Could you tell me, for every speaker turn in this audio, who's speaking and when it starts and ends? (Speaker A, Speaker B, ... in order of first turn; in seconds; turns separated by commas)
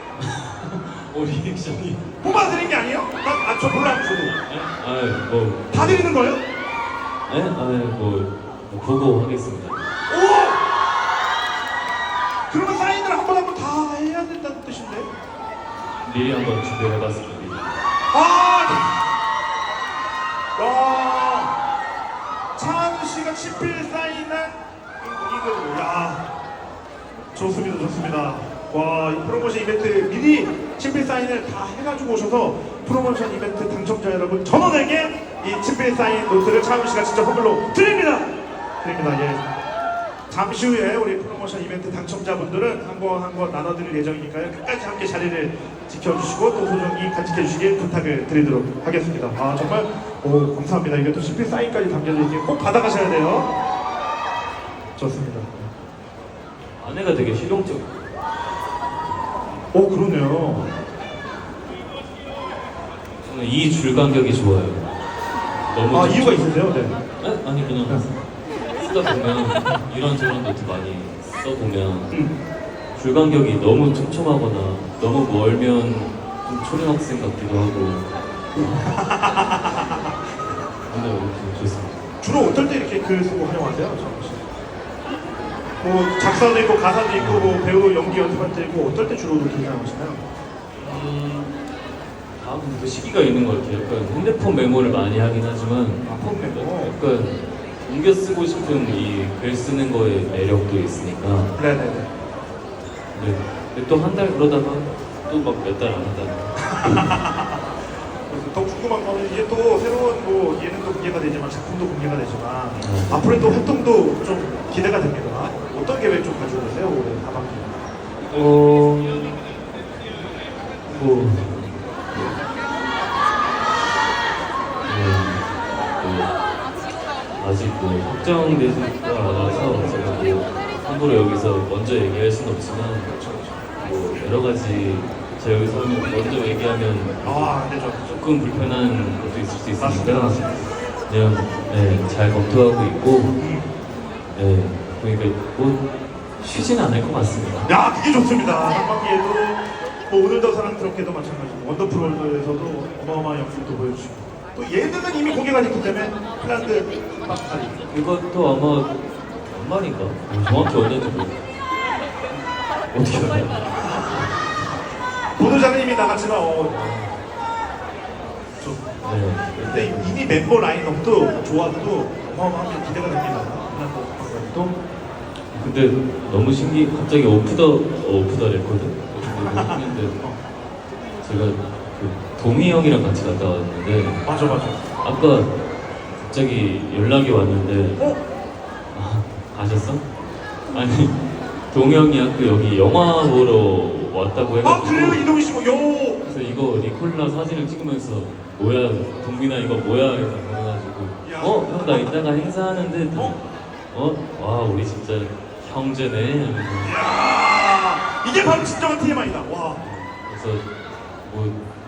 Speaker A: 0.2-2.1, Speaker B: 2.2-4.3, Speaker A: 4.5-6.1, Speaker B: 5.7-6.4, Speaker A: 7.3-9.9, Speaker B: 10.1-10.6, Speaker B: 12.5-15.1, Speaker A: 16.0-17.7, Speaker B: 18.1-18.9, Speaker B: 20.6-21.6, Speaker B: 22.6-26.2, Speaker B: 27.3-38.3, Speaker B: 38.8-39.4, Speaker B: 40.3-53.5, Speaker B: 55.0-55.7, Speaker A: 56.8-57.9, Speaker B: 59.7-60.7, Speaker A: 63.2-64.9, Speaker A: 65.7-66.4, Speaker B: 65.9-67.0, Speaker A: 67.2-68.1, Speaker A: 68.8-72.1, Speaker A: 73.0-78.1, Speaker B: 78.8-80.0, Speaker A: 80.9-82.0, Speaker B: 82.2-84.5, Speaker B: 85.8-90.2, Speaker A: 87.1-87.6, Speaker A: 90.8-91.5, Speaker A: 92.4-101.5, Speaker B: 96.0-97.0, Speaker B: 101.6-102.1, Speaker A: 103.1-107.1, Speaker B: 106.6-107.7, Speaker B: 108.3-117.7, Speaker A: 112.8-113.6, Speaker A: 118.3-119.4, Speaker A: 120.9-122.3, Speaker A: 124.8-125.5, Speaker A: 126.0-126.3, Speaker A: 127.4-133.1, Speaker B: 129.3-130.0, Speaker B: 133.1-133.6, Speaker A: 133.8-140.5, Speaker B: 137.2-138.2, Speaker B: 139.8-140.7, Speaker A: 141.1-143.4, Speaker B: 143.4-143.7, Speaker A: 144.3-145.8, Speaker A: 146.4-147.7, Speaker B: 147.7-157.8, Speaker A: 157.9-158.9, Speaker A: 159.5-161.4, Speaker A: 162.9-163.7, Speaker B: 163.7-164.3, Speaker B: 165.4-166.8, Speaker A: 166.7-167.2, Speaker B: 168.6-168.9, Speaker A: 169.0-170.2, Speaker B: 169.6-174.8, Speaker A: 175.5-180.2, Speaker B: 179.3-180.4, Speaker A: 181.2-184.2, Speaker B: 184.2-184.8, Speaker A: 185.0-185.5, Speaker A: 186.1-188.1, Speaker A: 188.9-190.1, Speaker A: 190.7-191.2, Speaker A: 191.7-195.2, Speaker B: 194.6-196.2, Speaker A: 196.2-207.0, Speaker B: 201.2-202.2, Speaker B: 203.1-203.4, Speaker B: 206.8-209.8, Speaker A: 209.8-210.7, Speaker A: 211.2-211.6